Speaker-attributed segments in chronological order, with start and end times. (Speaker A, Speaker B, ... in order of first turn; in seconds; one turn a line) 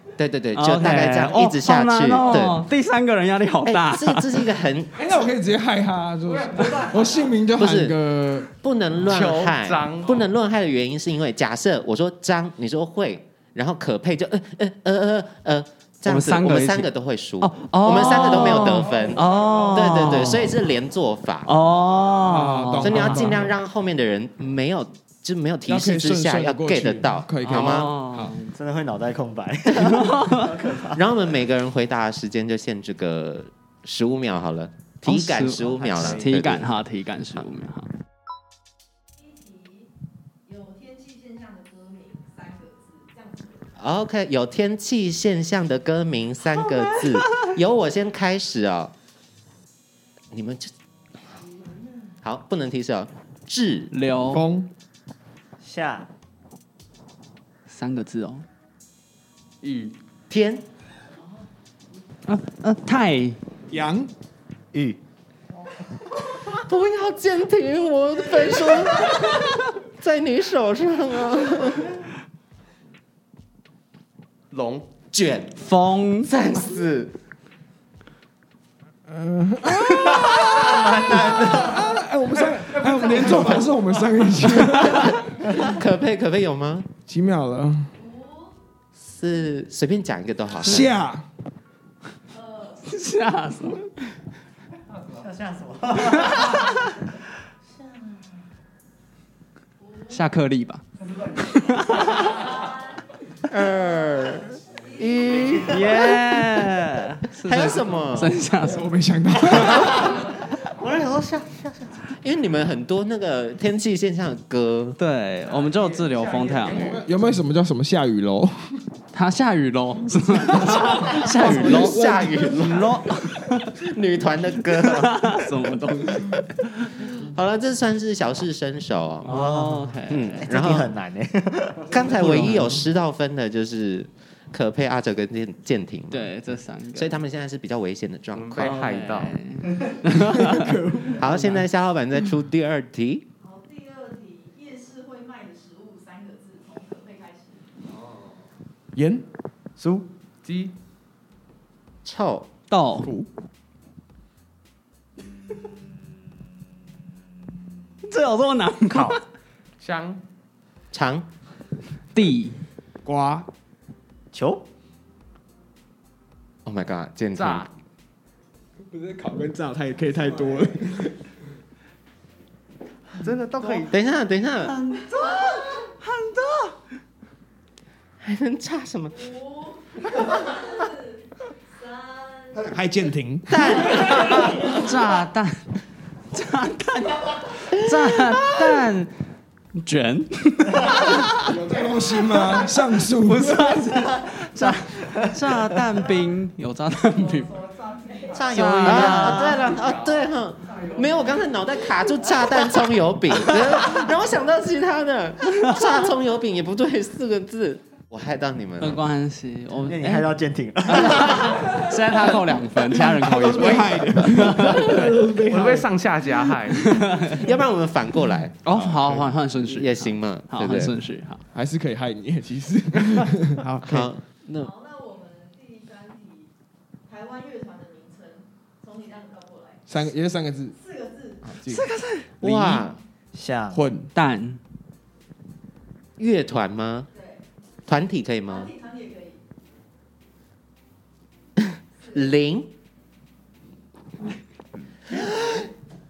Speaker A: 0.2-2.6
Speaker B: 0.5-4.4
Speaker A: 3.6-5.0
Speaker C: 5.0-8.5
Speaker D: 6.5-7.0
Speaker A: 7.6-8.0
Speaker A: 8.5-21.5
Speaker D: 9.0-10.2
Speaker B: 16.1-20.5
Speaker B: 21.4-23.4
Speaker C: 22.2-23.5
Speaker A: 22.8-27.9
Speaker C: 25.6-28.3
Speaker B: 27.4-28.5
Speaker E: 28.5-31.1
Speaker B: 29.7-30.5
Speaker A: 30.9-36.7
Speaker B: 35.0-37.9
Speaker E: 35.5-36.3
Speaker F: 39.2-39.9
Speaker F: 40.5-43.6
Speaker A: 43.8-48.9
Speaker A: 50.3-50.7
Speaker A: 52.2-53.9
Speaker B: 53.9-54.4
Speaker C: 54.3-54.7
Speaker E: 55.6-56.1
Speaker B: 57.7-58.5
Speaker D: 59.6-59.9
Speaker A: 60.3-60.6
Speaker B: 62.2-63.4
Speaker C: 63.7-64.1
Speaker E: 64.7-65.0
Speaker A: 66.4-72.0
Speaker D: 74.5-74.8
Speaker A: 75.1-75.6
Speaker B: 75.6-76.3
Speaker A: 76.2-77.1
Speaker C: 79.1-85.5
Speaker B: 79.8-80.5
Speaker E: 80.5-82.0
Speaker B: 84.6-85.2
Speaker A: 85.0-86.9
Speaker C: 87.0-87.9
Speaker F: 88.0-88.5
Speaker A: 89.0-91.0
Speaker C: 90.6-91.2
Speaker F: 92.3-92.8
Speaker B: 92.8-93.9
Speaker E: 95.1-96.8
Speaker B: 96.1-96.8
Speaker E: 97.8-98.4
Speaker F: 99.8-100.2
Speaker B: 100.1-102.5
Speaker F: 102.2-102.8
Speaker A: 103.5-106.4
Speaker B: 105.6-110.0
Speaker A: 107.3-108.3
Speaker C: 108.6-110.2
Speaker E: 109.8-112.0
Speaker A: 112.1-115.0
Speaker B: 115.0-117.0
Speaker D: 115.7-117.0
Speaker C: 116.8-118.7
Speaker B: 119.1-123.7
Speaker C: 120.5-122.7
Speaker A: 121.1-123.0
Speaker A: 123.7-125.4
Speaker B: 124.7-127.1
Speaker A: 127.1-129.4
Speaker B: 129.2-130.5
Speaker E: 129.2-132.6
Speaker A: 130.1-130.9
Speaker A: 131.9-136.3
Speaker C: 132.3-132.7
Speaker B: 136.1-137.1
Speaker A: 136.9-138.8
Speaker D: 138.3-139.3
Speaker B: 138.6-140.8
Speaker C: 140.1-141.4
Speaker A: 141.1-143.2
Speaker F: 143.4-147.7
Speaker C: 148.9-149.2
Speaker E: 149.8-150.0
Speaker D: 150.4-150.7
Speaker A: 152.0-152.5
Speaker B: 152.7-153.1
Speaker B: 158.0-159.2
Speaker E: 158.9-159.2
Speaker D: 159.8-160.2
Speaker A: 160.9-161.3
Speaker B: 162.1-162.6
Speaker C: 163.0-163.5
Speaker E: 164.3-164.6
Speaker A: 166.6-167.7
Speaker D: 167.3-167.7
Speaker C: 168.9-171.1
Speaker D: 173.2-173.9
Speaker E: 173.6-173.8
Speaker A: 173.9-174.8
Speaker B: 174.7-176.8
Speaker F: 175.0-175.8
Speaker A: 178.2-179.3
Speaker F: 179.2-182.7
Speaker A: 180.0-180.6
Speaker C: 182.5-184.4
Speaker A: 183.5-184.9
Speaker B: 184.5-185.7
Speaker B: 186.3-189.1
Speaker B: 189.7-191.6
Speaker C: 191.3-193.9
Speaker B: 193.2-197.6
Speaker F: 197.9-198.4
Speaker E: 198.3-199.8
Speaker B: 198.4-199.5
Speaker A: 198.8-209.0
Speaker D: 199.3-200.8
Speaker B: 208.8-210.3
Speaker E: 209.8-211.7
Speaker B: 210.9-215.1
Speaker C: 212.9-215.9
Speaker D: 213.6-213.9
Speaker D: 215.3-216.8
Speaker B: 216.7-217.4
Speaker A: 217.2-218.5
Speaker B: 218.6-221.4
Speaker A: 219.6-220.9
Speaker C: 221.5-224.1
Speaker A: 223.8-224.7
Speaker F: 224.6-226.5
Speaker F: 227.1-229.8
Speaker C: 229.9-230.8
Speaker F: 230.8-231.5
Speaker C: 231.5-231.8
Speaker B: 231.7-232.8
Speaker A: 232.4-233.0
Speaker C: 232.4-232.8
Speaker E: 233.3-233.8
Speaker C: 233.7-234.1
Speaker B: 234.1-234.6
Speaker A: 236.2-237.1
Speaker F: 237.1-237.4
Speaker A: 237.9-238.7
Speaker F: 238.5-239.4
Speaker A: 241.6-242.7
Speaker A: 245.2-245.5